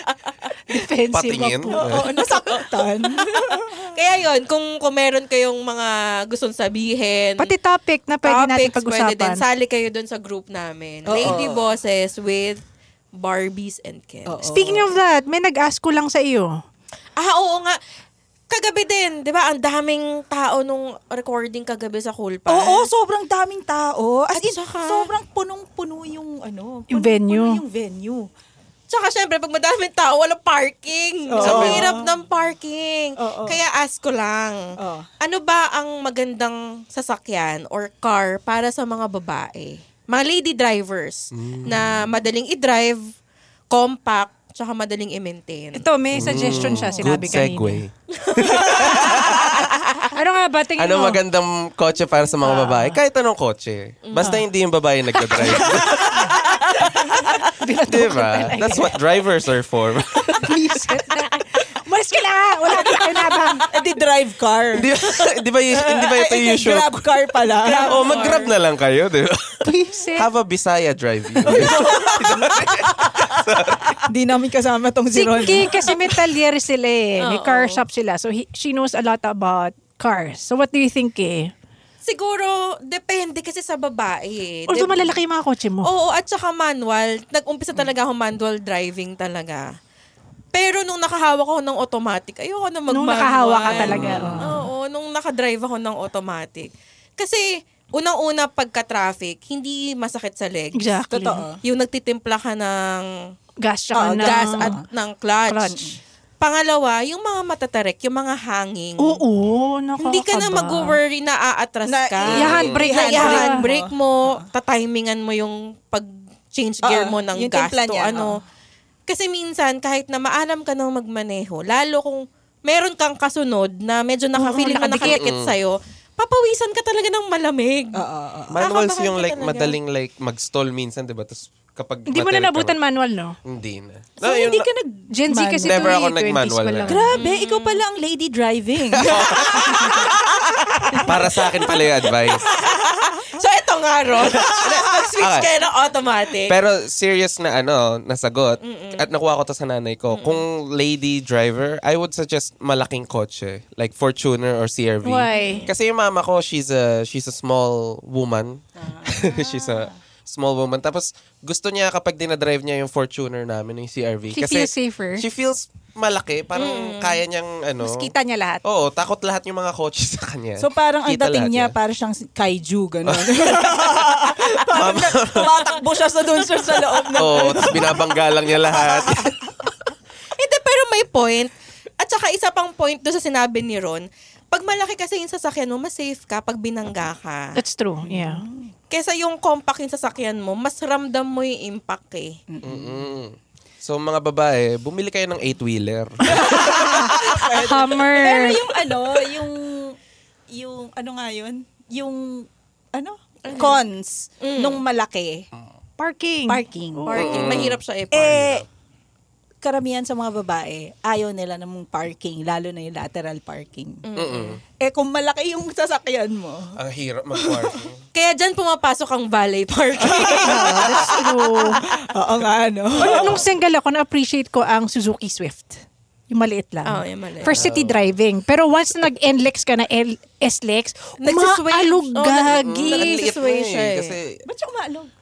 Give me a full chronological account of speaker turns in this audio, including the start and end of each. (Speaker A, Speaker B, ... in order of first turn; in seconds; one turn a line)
Speaker A: 0.7-2.0
Speaker B: 1.1-2.1
Speaker C: 1.8-3.9
Speaker D: 3.9-7.5
Speaker A: 7.4-9.4
Speaker D: 8.2-12.6
Speaker C: 11.1-11.7
Speaker D: 13.2-14.3
Speaker C: 14.3-14.9
Speaker A: 14.5-16.5
Speaker D: 17.2-17.8
Speaker D: 18.5-22.9
Speaker C: 22.5-28.3
Speaker D: 24.4-25.1
Speaker A: 26.9-27.6
Speaker D: 28.9-34.6
Speaker C: 31.3-32.1
Speaker B: 31.4-31.9
Speaker C: 33.2-33.6
Speaker C: 34.8-35.1
Speaker D: 35.2-43.0
Speaker B: 41.3-42.0
Speaker D: 43.7-45.8
Speaker A: 45.7-47.8
Speaker B: 46.1-49.6
Speaker C: 46.5-47.2
Speaker D: 48.1-49.1
Speaker A: 50.1-51.2
Speaker B: 50.8-56.5
Speaker A: 52.4-53.0
Speaker D: 54.1-54.4
Speaker C: 55.3-56.4
Speaker B: 57.1-57.4
Speaker A: 57.6-58.9
Speaker B: 57.9-60.5
Speaker A: 60.4-63.7
Speaker C: 63.6-68.1
Speaker B: 64.7-67.1
Speaker D: 67.6-68.5
Speaker B: 67.8-74.0
Speaker A: 69.6-70.3
Speaker C: 71.4-73.1
Speaker C: 74.1-76.1
Speaker A: 75.1-81.5
Speaker D: 77.2-77.8
Speaker D: 82.0-85.2
Speaker A: 84.7-85.9
Speaker D: 85.8-89.7
Speaker D: 90.5-100.9
Speaker A: 92.9-94.6
Speaker C: 93.7-94.7
Speaker A: 100.7-101.4
Speaker C: 101.1-101.6
Speaker D: 101.6-103.1
Speaker A: 103.6-104.7
Speaker C: 103.9-104.8
Speaker D: 104.2-105.8
Speaker A: 105.5-105.8
Speaker D: 106.4-109.2
Speaker A: 109.0-111.0
Speaker D: 110.0-118.3
Speaker C: 111.8-114.4
Speaker B: 112.3-112.9
Speaker A: 112.3-113.6
Speaker C: 116.8-118.3
Speaker D: 119.1-128.0
Speaker C: 124.4-125.2
Speaker B: 125.0-125.5
Speaker C: 128.0-128.5
Speaker B: 128.5-132.8
Speaker D: 128.6-129.8
Speaker A: 132.1-133.4
Speaker B: 133.4-134.7
Speaker A: 134.2-134.6
Speaker C: 134.2-136.0
Speaker A: 135.1-137.1
Speaker B: 135.6-137.1
Speaker C: 136.9-142.9
Speaker D: 137.2-137.8
Speaker B: 138.9-140.1
Speaker B: 140.8-142.4
Speaker D: 142.8-146.5
Speaker B: 144.4-145.5
Speaker B: 146.5-168.1
Speaker D: 148.6-149.0
Speaker D: 150.1-150.4
Speaker A: 155.0-155.7
Speaker C: 158.8-159.9
Speaker A: 164.3-165.2
Speaker D: 166.5-167.2
Speaker A: 167.8-168.6
Speaker B: 168.6-171.7
Speaker C: 170.6-179.3
Speaker B: 173.1-175.5
Speaker B: 177.2-179.3
Speaker D: 180.4-187.6
Speaker A: 187.6-188.4
Speaker C: 188.1-188.7
Speaker D: 188.9-192.3
Speaker C: 192.5-193.0
Speaker B: 192.6-197.1
Speaker C: 196.3-199.9
Speaker A: 196.5-198.6
Speaker C: 200.5-205.4
Speaker D: 203.4-203.8
Speaker D: 204.4-204.8
Speaker A: 206.0-207.4
Speaker C: 206.5-207.5
Speaker D: 207.1-208.4
Speaker B: 207.2-208.6
Speaker C: 208.1-208.6
Speaker C: 209.6-214.0
Speaker D: 214.1-214.6
Speaker B: 214.2-214.6
Speaker C: 214.8-216.6
Speaker B: 216.8-218.0
Speaker C: 217.4-217.8
Speaker D: 218.1-220.9
Speaker C: 220.0-223.4
Speaker A: 220.4-221.8
Speaker A: 223.0-233.3
Speaker D: 226.8-227.6
Speaker B: 227.4-228.2
Speaker D: 231.2-234.2
Speaker B: 232.4-234.4
Speaker C: 234.5-235.1